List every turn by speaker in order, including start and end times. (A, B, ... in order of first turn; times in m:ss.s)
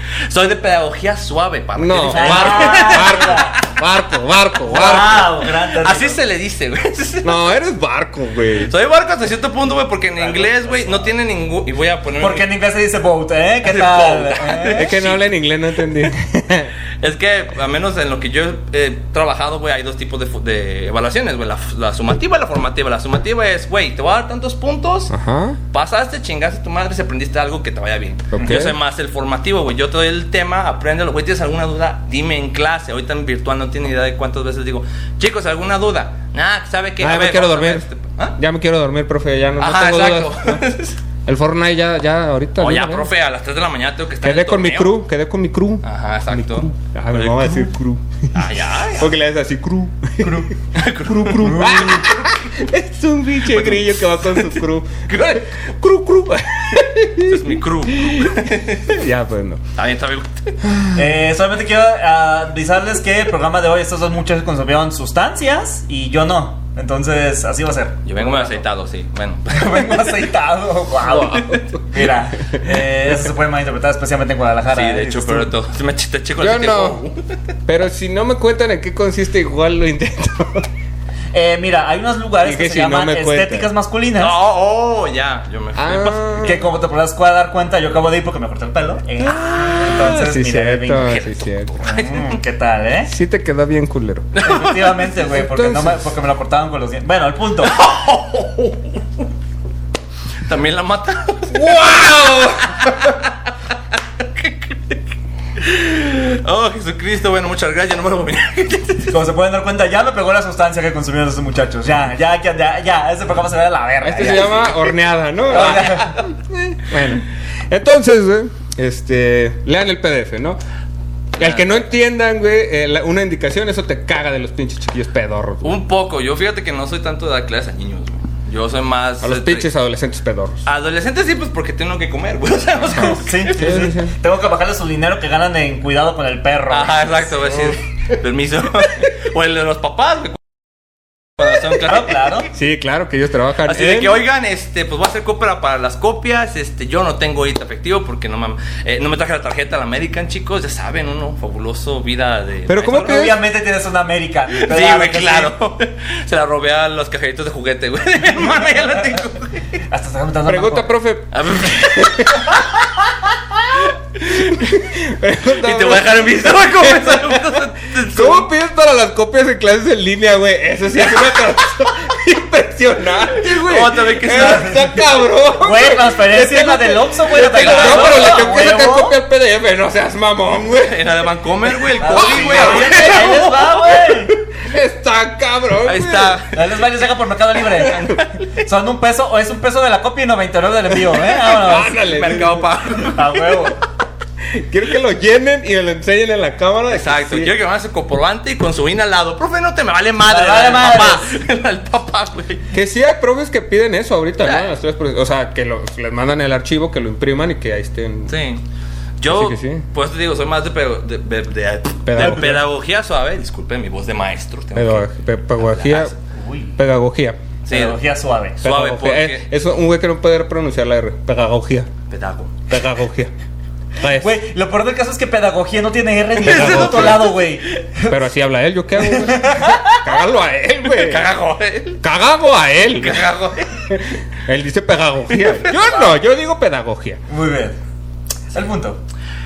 0:00.3-0:03.8 A
0:01.8-0:05.3 B
0:02.1-0:03.6 C
0:04.6-0:06.2 C
0:05.2-0:07.4 A
0:07.2-0:08.7 B
0:08.6-0:12.5 A
0:10.2-0:11.1 C
0:12.2-0:15.0 C
0:13.7-0:15.3 A
0:14.8-0:16.7 B
0:17.0-0:25.1 A
0:25.1-0:25.6 B
0:25.7-0:38.4 A
0:28.3-0:28.8 B
0:37.0-0:37.9 B
0:38.4-0:40.6 B
0:39.6-0:41.0 A
0:41.3-0:43.1 B
0:42.6-0:44.9 A
0:44.2-0:48.4 B
0:45.8-0:47.7 A
0:48.3-0:49.1 A
0:49.0-0:50.5 B
0:50.2-0:50.5 C
0:50.7-0:52.4 A
0:51.0-0:59.6 B
0:51.4-0:52.0 C
0:53.5-0:55.5 A
0:57.2-0:59.0 A
0:59.8-1:00.6 A
1:00.9-1:08.6 C
1:08.1-1:10.2 A
1:09.5-1:15.5 C
1:11.0-1:11.6 A
1:11.2-1:11.8 B
1:14.7-1:17.4 A
1:16.4-1:17.0 B
1:17.7-1:20.7 B
1:21.3-1:24.4 C
1:22.4-1:23.7 B
1:24.2-1:26.6 A
1:25.8-1:26.6 B
1:26.4-1:31.2 C
1:29.4-1:31.8 B
1:31.0-1:32.4 A
1:31.8-1:33.1 C
1:33.1-1:34.3 B
1:34.3-1:35.1 A
1:34.4-1:37.8 C
1:35.3-1:36.0 B
1:37.6-1:39.2 A
1:40.4-1:43.5 A
1:41.5-1:43.1 B
1:44.2-1:45.0 A
1:45.6-1:49.1 A
1:49.1-1:54.9 C
1:54.0-2:00.6 B
1:55.5-1:56.2 C
1:55.6-1:56.2 A
2:01.4-2:05.8 B
2:01.4-2:01.8 A
2:05.6-2:09.7 A
2:09.2-2:10.6 B
2:10.7-2:13.6 A
2:12.9-2:17.7 C
2:13.0-2:14.1 B
2:16.7-2:20.4 A
2:21.4-2:22.4 A
2:21.8-2:22.5 C
2:22.5-2:24.2 B
2:23.7-2:33.2 A
2:32.7-2:33.4 B
2:32.9-2:35.5 C
2:34.5-2:39.8 A
2:39.9-2:40.9 C
2:40.5-2:42.7 B
2:41.3-2:42.9 A
2:43.8-2:44.7 A
2:44.3-3:01.1 B
2:45.6-2:48.5 A
2:53.4-2:55.0 A
2:54.3-2:54.8 C
2:55.6-2:59.2 C
2:57.4-2:58.5 A
3:00.7-3:04.3 A
3:01.7-3:03.3 B
3:02.0-3:04.3 C
3:04.6-3:06.4 B
3:05.8-3:06.8 A
3:06.5-3:12.0 C
3:07.8-3:08.4 A
3:07.8-3:08.2 B
3:11.4-3:12.7 B
3:11.9-3:13.7 A
3:13.0-3:13.8 C
3:14.5-3:17.5 B
3:16.9-3:22.6 A
3:20.3-3:21.3 C
3:22.7-3:28.3 B
3:24.4-3:24.7 A
3:28.3-3:28.6 A
3:29.2-3:35.1 A
3:29.3-3:29.8 B
3:32.1-3:32.6 B
3:34.8-3:36.1 B
3:35.6-3:36.2 A
3:36.3-3:36.8 C
3:36.8-3:37.4 B
3:37.7-3:38.0 A
3:37.7-3:38.6 C
3:38.6-3:39.4 A
3:38.6-3:41.9 B
3:42.1-3:42.6 A
3:42.7-3:43.3 B
3:44.0-3:44.4 B
3:44.1-3:48.2 C
3:46.4-3:47.4 A
3:46.4-3:47.3 B
3:48.1-3:51.3 B
3:49.0-3:50.1 C
3:50.9-3:52.0 A
3:52.0-3:53.3 B
3:53.0-3:54.0 A
3:53.9-3:57.2 B
3:55.4-3:55.7 A
3:55.8-3:56.2 C
3:57.3-3:57.8 C
3:58.5-3:59.0 C